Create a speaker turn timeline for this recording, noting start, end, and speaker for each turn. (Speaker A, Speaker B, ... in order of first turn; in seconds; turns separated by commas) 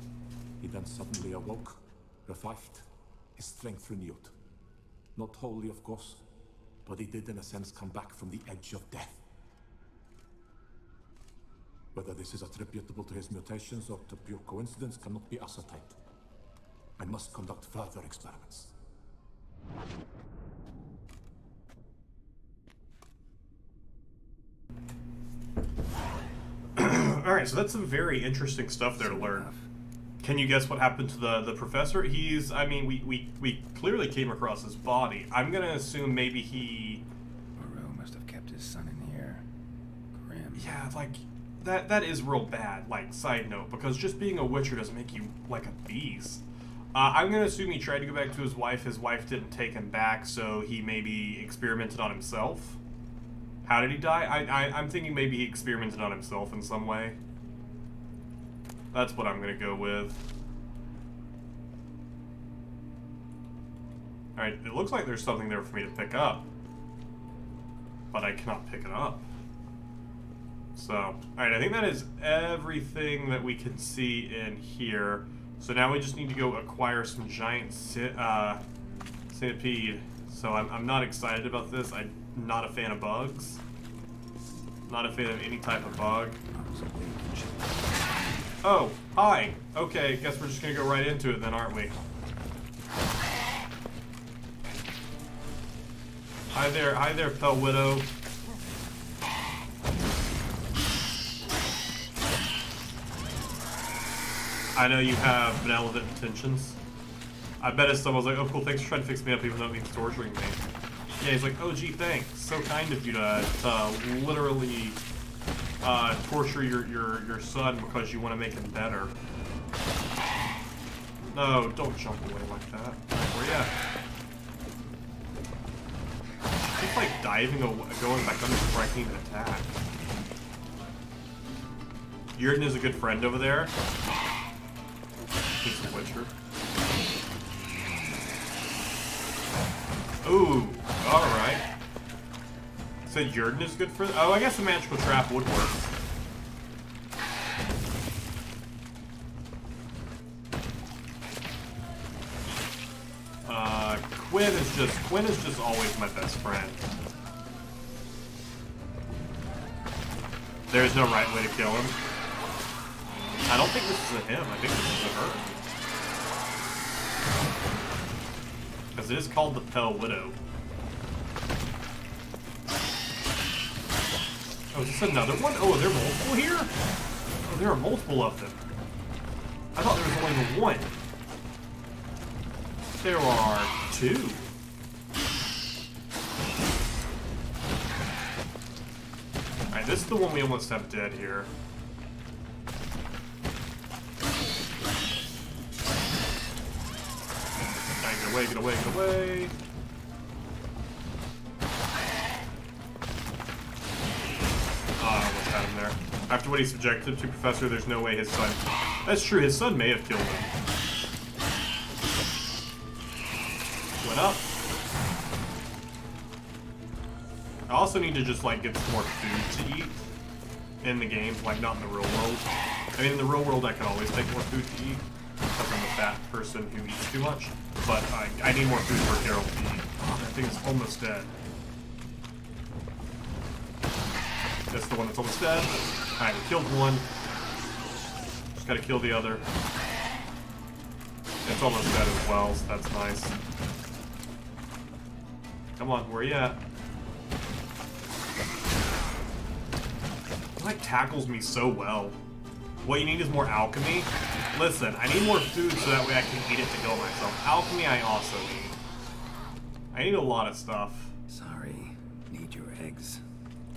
Speaker A: 0.6-4.3, Speaker A: 5.2-6.2, Speaker A: 6.8-9.2, Speaker A: 11.9-16.0, Speaker A: 17.0-18.7, Speaker B: 26.8-29.5, Speaker C: 29.0-29.7, Speaker B: 30.2-37.0, Speaker C: 37.5-39.5, Speaker C: 40.1-40.7, Speaker B: 40.5-46.4, Speaker B: 46.9-52.8, Speaker B: 53.6-57.2, Speaker B: 58.9-60.3, Speaker B: 64.3-66.5, Speaker B: 68.1-69.2, Speaker B: 70.8-78.6, Speaker B: 79.3-83.6, Speaker B: 84.9-86.4, Speaker C: 85.8-88.1, Speaker B: 88.6-91.9, Speaker B: 96.5-98.1, Speaker B: 104.7-106.8, Speaker B: 107.6-110.6, Speaker B: 111.2-115.0, Speaker B: 115.8-119.1, Speaker B: 121.2-123.7, Speaker B: 126.7-129.8, Speaker B: 132.3-133.7, Speaker B: 135.6-136.3, Speaker C: 137.6-138.2, Speaker B: 140.2-141.6, Speaker B: 143.0-145.8, Speaker B: 153.4-156.9, Speaker B: 160.7-162.0, Speaker B: 163.5-165.4, Speaker B: 168.9-170.4, Speaker B: 174.7-176.7, Speaker B: 177.4-178.6, Speaker B: 179.7-180.9, Speaker B: 183.0-184.5, Speaker B: 189.7-191.5, Speaker B: 198.0-199.5, Speaker B: 205.0-210.5, Speaker B: 214.0-214.4, Speaker B: 217.7-220.1, Speaker B: 220.8-225.0, Speaker B: 225.6-231.3, Speaker B: 234.7-237.1, Speaker B: 238.5-239.4, Speaker B: 241.4-243.3, Speaker B: 245.8-246.6, Speaker B: 250.6-252.2, Speaker B: 252.8-258.8, Speaker B: 259.9-261.1, Speaker C: 261.3-263.2